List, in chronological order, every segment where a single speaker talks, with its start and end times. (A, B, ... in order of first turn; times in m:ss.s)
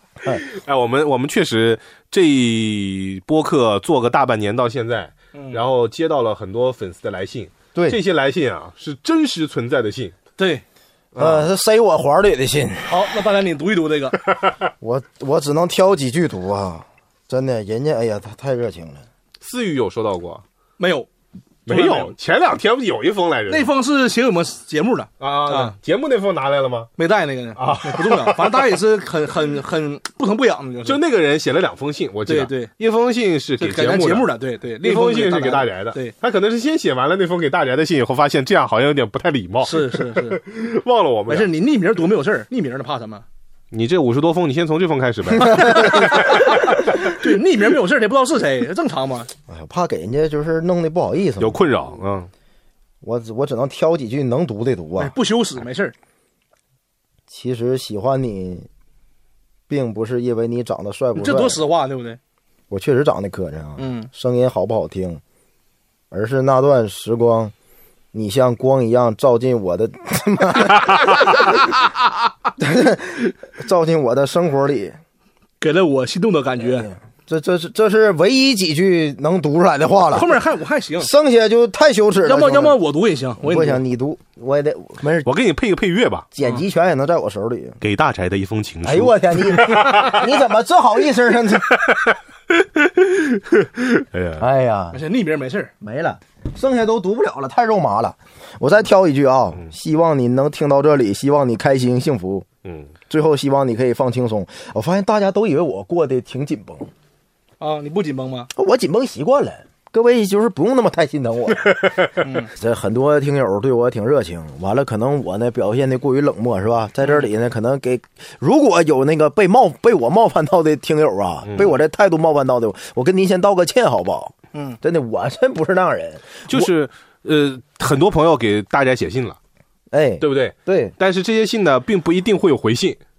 0:00.2-0:10.2 A
0:05.3-0:05.6 B
0:10.4-0:10.6 B
0:11.1-0:11.5 A
0:11.2-0:13.0 C
0:12.8-0:14.2 B
0:14.8-0:19.0 C
0:19.4-0:20.4 A
0:20.8-0:21.1 B
0:21.7-0:22.1 B
0:21.7-0:23.7 A
0:23.5-0:25.8 B
0:25.2-0:26.9 A
0:27.0-0:31.0 B
0:27.6-0:28.8 A
0:30.8-0:34.3 A
0:32.3-0:32.7 B
0:33.6-0:36.1 B
0:34.8-0:41.5 A
0:39.6-0:40.4 B
0:41.3-0:43.2 B
0:43.7-0:47.0 A
0:45.5-0:49.3 B
0:49.5-0:51.6 C
0:51.4-0:52.3 A
0:53.0-0:55.1 C
0:55.0-0:55.9 B
0:57.3-0:58.7 C
0:59.7-1:01.6 C
1:01.2-1:02.2 B
1:02.7-1:05.2 C
1:03.8-1:04.1 B
1:06.1-1:07.5 C
1:08.1-1:11.0 C
1:11.4-1:11.6 B
1:12.6-1:15.0 C
1:15.6-1:16.9 B
1:16.6-1:20.3 C
1:20.1-1:21.1 B
1:21.0-1:22.8 C
1:22.2-1:23.8 B
1:23.4-1:25.3 C
1:25.2-1:26.3 A
1:26.3-1:27.8 C
1:27.8-1:30.2 A
1:28.8-1:31.8 C
1:31.7-1:34.5 A
1:34.4-1:35.0 C
1:34.9-1:35.7 B
1:35.8-1:42.4 C
1:42.6-1:42.9 A
1:43.1-1:46.9 C
1:47.6-1:48.5 B
1:48.5-1:51.9 C
1:51.8-1:52.1 A
1:52.2-1:52.5 B
1:52.5-2:06.7 C
2:01.4-2:01.7 A
2:04.5-2:04.8 B
2:06.5-2:09.4 A
2:09.9-2:10.9 C
2:10.2-2:13.0 A